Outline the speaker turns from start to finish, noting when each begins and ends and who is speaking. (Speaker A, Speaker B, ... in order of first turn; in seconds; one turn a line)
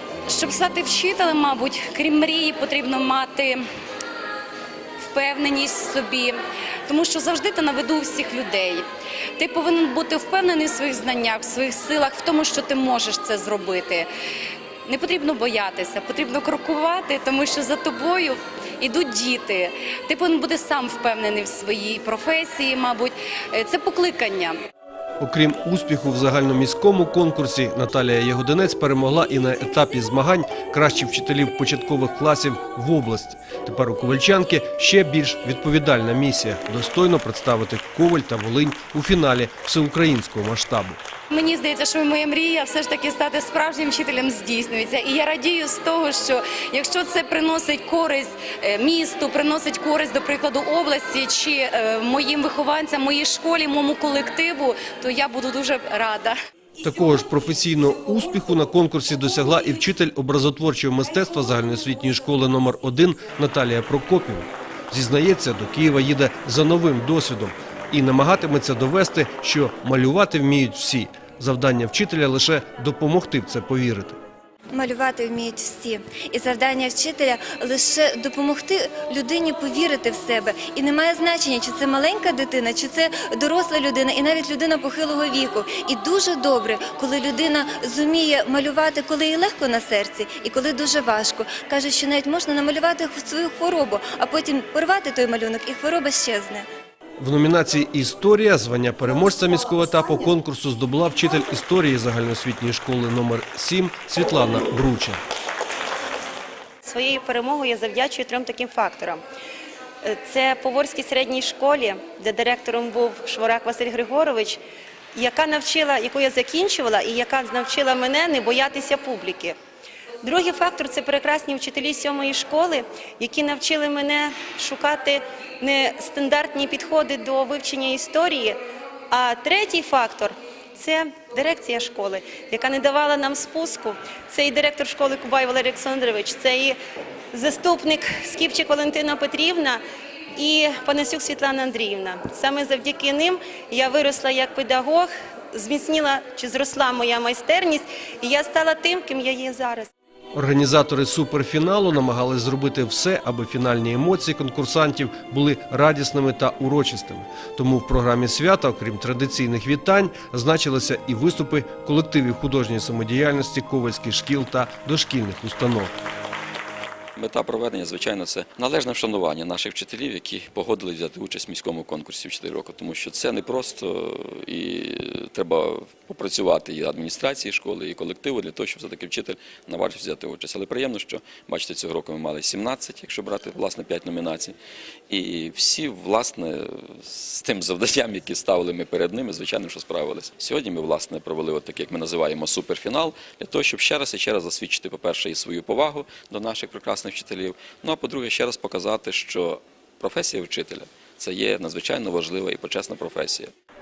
Speaker A: 0.3-3.6
Speaker A: 5.0-6.3
Speaker A: 6.9-8.8
Speaker A: 9.4-14.1
Speaker A: 14.8-24.5
Speaker B: 25.2-41.0
Speaker A: 41.3-56.3
Speaker B: 56.8-74.2
Speaker C: 74.7-96.7
Speaker B: 97.2-105.2
Speaker D: 106.8-109.2
Speaker D: 110.0-114.6
Speaker D: 115.1-119.5
Speaker D: 120.2-128.6
Speaker D: 129.1-136.8
Speaker D: 137.3-139.8
Speaker D: 140.4-149.9
Speaker B: 150.3-165.9
Speaker E: 167.2-184.5
Speaker E: 185.1-203.5